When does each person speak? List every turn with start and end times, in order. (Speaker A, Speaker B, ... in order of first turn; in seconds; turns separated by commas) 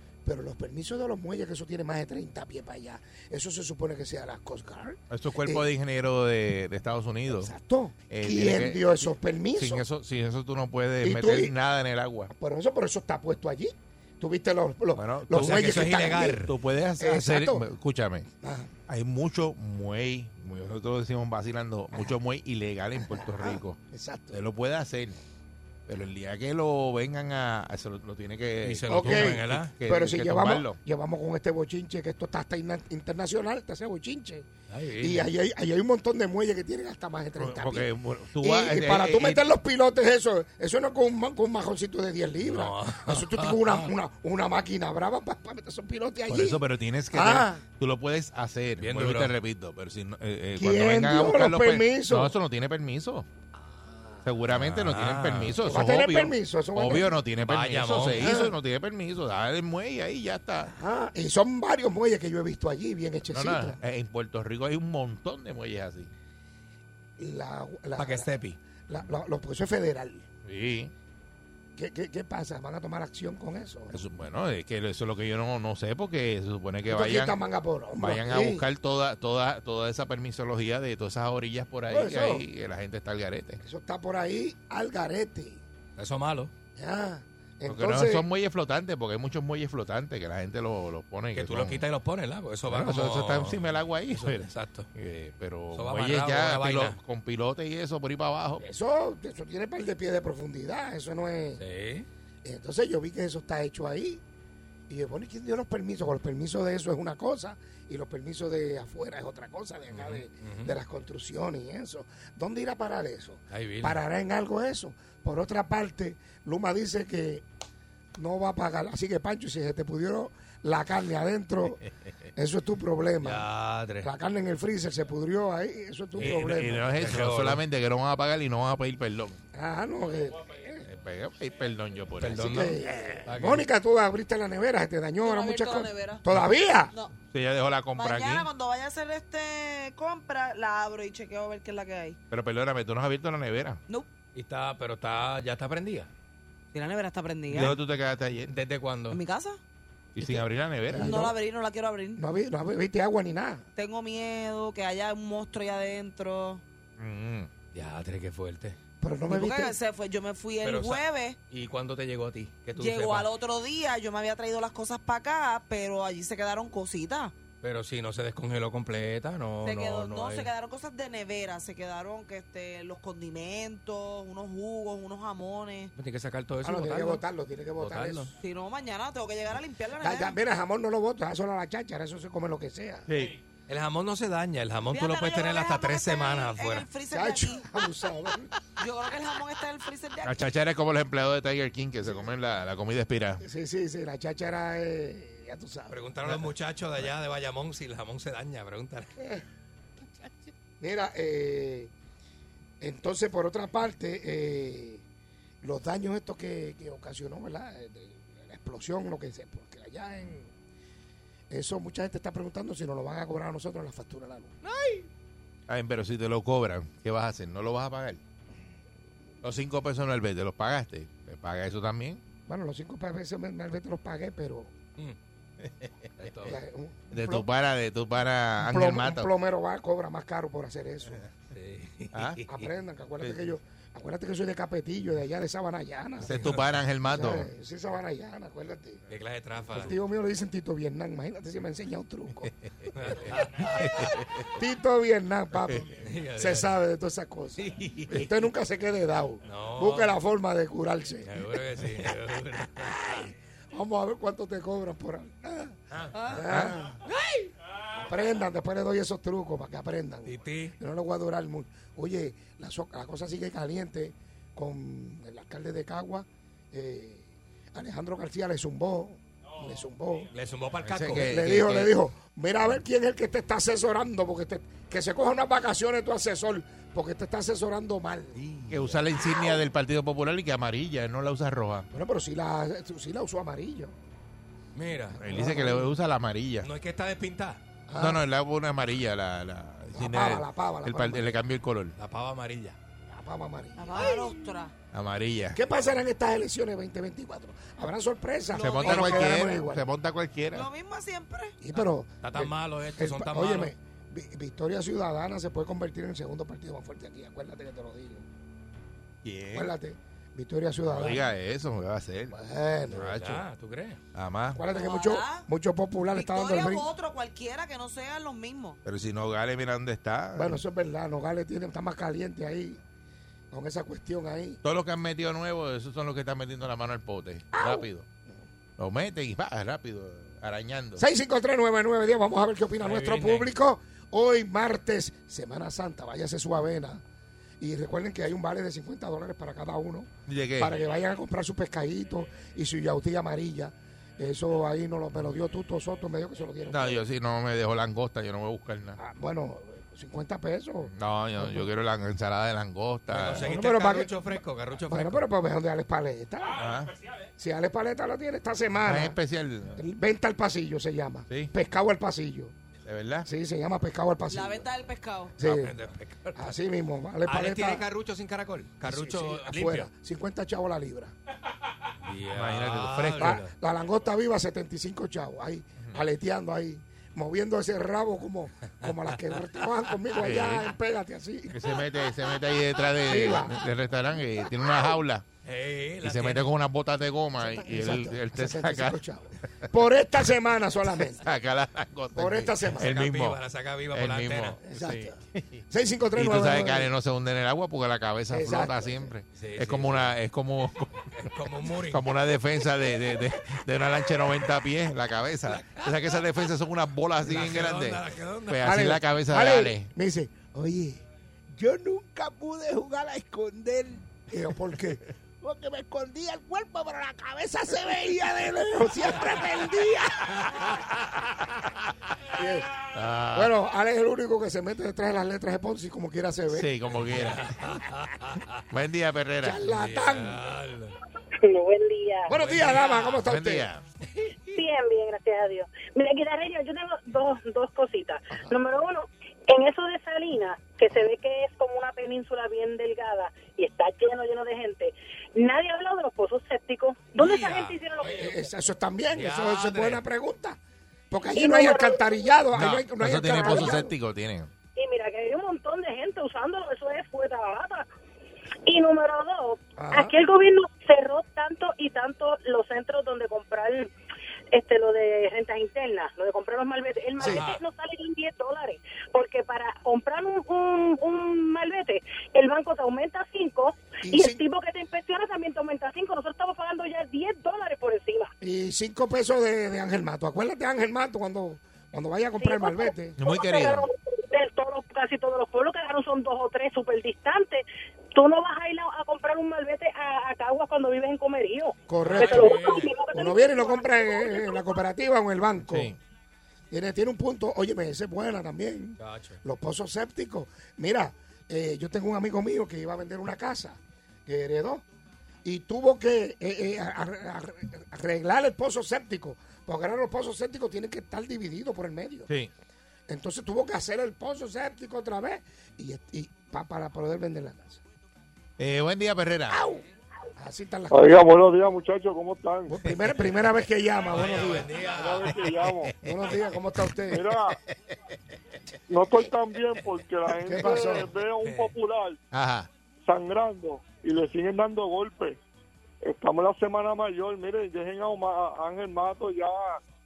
Speaker A: 0.2-5.7, Speaker B: 5.1-7.5, Speaker A: 7.3-9.8, Speaker B: 8.1-12.3, Speaker A: 11.0-11.6, Speaker A: 12.3-17.7, Speaker B: 14.9-15.7, Speaker C: 15.3-16.5, Speaker B: 16.4-18.3, Speaker A: 18.4-18.7, Speaker B: 18.9-23.8, Speaker A: 22.9-24.4, Speaker B: 24.3-25.2, Speaker B: 25.9-30.8, Speaker C: 28.6-29.7, Speaker A: 28.9-34.5, Speaker C: 34.7-35.3, Speaker A: 35.0-47.6, Speaker B: 37.4-39.5, Speaker C: 42.4-43.9, Speaker B: 46.3-53.3, Speaker C: 48.8-49.3, Speaker A: 50.5-52.4, Speaker A: 53.9-54.2, Speaker B: 54.2-60.7, Speaker C: 54.5-55.6, Speaker A: 55.6-57.2, Speaker C: 57.4-58.4, Speaker A: 58.1-58.6, Speaker A: 60.7-63.8, Speaker B: 63.2-66.1, Speaker A: 67.2-70.2, Speaker C: 68.0-68.6, Speaker B: 70.4-70.9, Speaker A: 71.7-74.0, Speaker B: 73.9-77.4, Speaker A: 76.8-78.7, Speaker B: 77.9-83.6, Speaker A: 81.9-82.5, Speaker A: 83.6-85.6, Speaker C: 86.0-86.5, Speaker A: 86.8-88.3, Speaker B: 87.7-91.9, Speaker C: 91.3-94.9, Speaker B: 92.7-98.6, Speaker C: 95.7-97.0, Speaker A: 98.6-101.6, Speaker C: 101.6-102.1, Speaker A: 102.4-104.2, Speaker A: 104.9-117.4, Speaker C: 109.9-110.7, Speaker C: 113.5-114.0, Speaker A: 118.2-123.5, Speaker C: 123.2-124.1, Speaker A: 124.0-126.9, Speaker B: 126.2-129.4, Speaker C: 126.9-127.6, Speaker A: 129.5-130.9, Speaker B: 130.8-132.7, Speaker C: 132.2-133.6, Speaker A: 132.4-136.9, Speaker D: 135.2-136.2, Speaker B: 137.3-138.5, Speaker D: 137.9-142.2, Speaker B: 142.3-143.8, Speaker C: 144.3-146.1, Speaker D: 146.7-147.8, Speaker B: 147.5-148.5, Speaker C: 148.5-149.2, Speaker D: 149.1-149.6, Speaker B: 150.1-151.1, Speaker D: 150.2-152.2, Speaker A: 150.9-151.4, Speaker A: 152.2-153.7, Speaker D: 153.8-156.6, Speaker B: 157.0-157.5, Speaker C: 157.7-158.8, Speaker A: 159.0-159.8, Speaker D: 159.3-161.4, Speaker C: 160.6-163.3, Speaker D: 162.8-167.3, Speaker C: 167.6-170.5, Speaker D: 169.6-175.9, Speaker C: 175.9-177.2, Speaker A: 176.6-178.3, Speaker C: 177.8-178.3, Speaker D: 178.4-180.3, Speaker A: 180.0-183.1, Speaker B: 183.1-183.3, Speaker C: 183.7-186.9, Speaker D: 184.9-187.7, Speaker A: 187.1-188.5, Speaker D: 188.8-190.5, Speaker B: 190.2-193.4, Speaker A: 192.0-192.4, Speaker A: 193.4-196.0, Speaker C: 195.9-199.1, Speaker A: 199.2-199.4, Speaker A: 200.8-201.9, Speaker A: 202.8-205.0, Speaker A: 205.6-210.5, Speaker A: 211.5-214.6, Speaker B: 215.7-218.2, Speaker B: 219.4-222.2, Speaker A: 222.5-224.7, Speaker C: 226.2-226.6, Speaker A: 226.4-227.5, Speaker B: 227.1-229.3, Speaker A: 228.6-231.3, Speaker C: 231.5-232.7, Speaker B: 232.1-232.4, Speaker A: 232.5-236.3, Speaker B: 233.2-233.5, Speaker B: 236.2-237.5, Speaker C: 236.2-236.8, Speaker A: 237.1-239.1, Speaker C: 239.1-239.9, Speaker A: 239.7-242.5, Speaker C: 242.9-244.0, Speaker A: 243.8-251.4, Speaker C: 246.0-246.7, Speaker B: 247.6-248.3, Speaker C: 249.4-250.2, Speaker C: 251.2-253.1, Speaker A: 252.8-257.0, Speaker D: 256.1-256.4, Speaker B: 256.5-256.8, Speaker A: 257.9-270.3, Speaker C: 260.2-260.7, Speaker C: 270.3-271.4, Speaker B: 270.8-272.0, Speaker A: 271.2-278.4, Speaker C: 278.3-279.0, Speaker B: 278.7-281.9, Speaker A: 281.9-283.9, Speaker C: 284.7-285.2, Speaker A: 285.1-285.9, Speaker B: 285.2-286.7, Speaker C: 286.6-287.6, Speaker A: 287.9-288.3, Speaker B: 287.9-291.9, Speaker A: 289.9-291.4, Speaker C: 291.9-292.8, Speaker A: 293.1-294.4, Speaker D: 293.8-294.7, Speaker B: 294.9-295.6, Speaker A: 295.5-299.9, Speaker D: 298.5-299.6, Speaker B: 298.6-300.7, Speaker D: 300.5-301.6, Speaker A: 301.6-308.2, Speaker C: 301.7-303.7, Speaker B: 309.2-309.7, Speaker A: 309.5-311.2, Speaker C: 310.9-311.2, Speaker B: 311.0-312.4, Speaker A: 312.3-313.1, Speaker B: 312.9-313.4, Speaker C: 313.0-314.0, Speaker B: 314.1-314.6, Speaker A: 314.5-316.9, Speaker D: 314.7-315.5, Speaker D: 316.1-318.8, Speaker B: 318.8-320.6, Speaker A: 320.4-322.8, Speaker A: 323.5-324.6, Speaker B: 324.6-328.1, Speaker B: 328.8-331.0, Speaker A: 331.0-337.0, Speaker C: 332.8-333.5, Speaker A: 337.6-347.1, Speaker B: 340.3-340.8, Speaker B: 346.7-349.0, Speaker A: 349.0-351.7, Speaker B: 350.9-353.5, Speaker C: 353.1-355.3, Speaker A: 353.4-356.6, Speaker B: 356.6-356.9, Speaker A: 357.4-359.2, Speaker B: 358.8-359.8, Speaker A: 359.7-362.5, Speaker B: 361.3-361.5, Speaker B: 362.9-363.3, Speaker A: 363.2-364.7, Speaker D: 364.3-365.3, Speaker A: 365.4-365.8, Speaker C: 365.4-366.6, Speaker A: 366.3-367.9, Speaker C: 367.3-369.9, Speaker A: 368.8-371.1, Speaker C: 372.0-373.5, Speaker B: 372.3-373.4, Speaker A: 373.2-381.6, Speaker C: 378.9-379.7, Speaker B: 380.1-380.7, Speaker B: 381.5-385.2, Speaker A: 383.0-383.6, Speaker C: 385.4-386.5, Speaker B: 386.0-389.0, Speaker A: 387.4-391.3, Speaker B: 391.1-401.1, Speaker A: 392.1-392.9, Speaker C: 392.7-394.6, Speaker A: 394.6-395.2, Speaker A: 395.7-396.9, Speaker A: 398.3-399.1, Speaker C: 399.3-400.2, Speaker C: 401.1-402.1, Speaker B: 401.8-409.9, Speaker C: 405.4-406.2, Speaker C: 407.2-408.7, Speaker A: 408.6-411.0, Speaker A: 411.5-420.7, Speaker C: 420.4-421.5, Speaker A: 422.3-422.8, Speaker B: 422.9-423.5, Speaker A: 423.3-426.7, Speaker B: 426.5-427.5, Speaker C: 427.0-428.4, Speaker B: 428.7-429.7, Speaker A: 429.4-430.4, Speaker C: 429.6-431.0, Speaker E: 431.4-432.3, Speaker A: 432.3-433.7, Speaker C: 432.3-433.2, Speaker B: 433.2-433.8, Speaker E: 434.5-448.3, Speaker A: 438.3-438.6, Speaker C: 447.1-448.4, Speaker A: 448.1-450.6, Speaker C: 449.1-450.0, Speaker A: 451.1-453.9, Speaker E: 451.3-452.1, Speaker B: 452.5-454.5, Speaker E: 453.5-453.8, Speaker E: 454.7-457.9, Speaker E: 458.6-463.9, Speaker A: 459.8-460.1, Speaker E: 464.5-478.3, Speaker C: 467.2-467.6, Speaker A: 467.2-467.4, Speaker A: 474.0-474.4, Speaker A: 478.4-483.2, Speaker E: 482.4-494.7, Speaker B: 483.2-483.9, Speaker A: 491.9-495.9, Speaker C: 492.0-493.0, Speaker B: 495.6-496.0, Speaker A: 496.7-504.8, Speaker C: 499.0-499.4, Speaker A: 505.4-512.3, Speaker B: 512.3-512.5, Speaker A: 513.1-517.8, Speaker B: 518.6-519.6, Speaker A: 519.5-519.8, Speaker A: 520.4-521.3, Speaker F: 520.9-522.8, Speaker A: 522.7-524.7, Speaker C: 524.0-525.4, Speaker F: 524.8-525.9, Speaker B: 525.3-526.2, Speaker A: 526.0-527.3, Speaker B: 526.8-527.1, Speaker F: 527.1-527.6, Speaker F: 528.9-532.2, Speaker B: 529.2-529.8, Speaker A: 530.4-531.1, Speaker C: 531.4-531.7, Speaker B: 532.3-532.7, Speaker F: 533.0-535.4, Speaker F: 536.0-539.8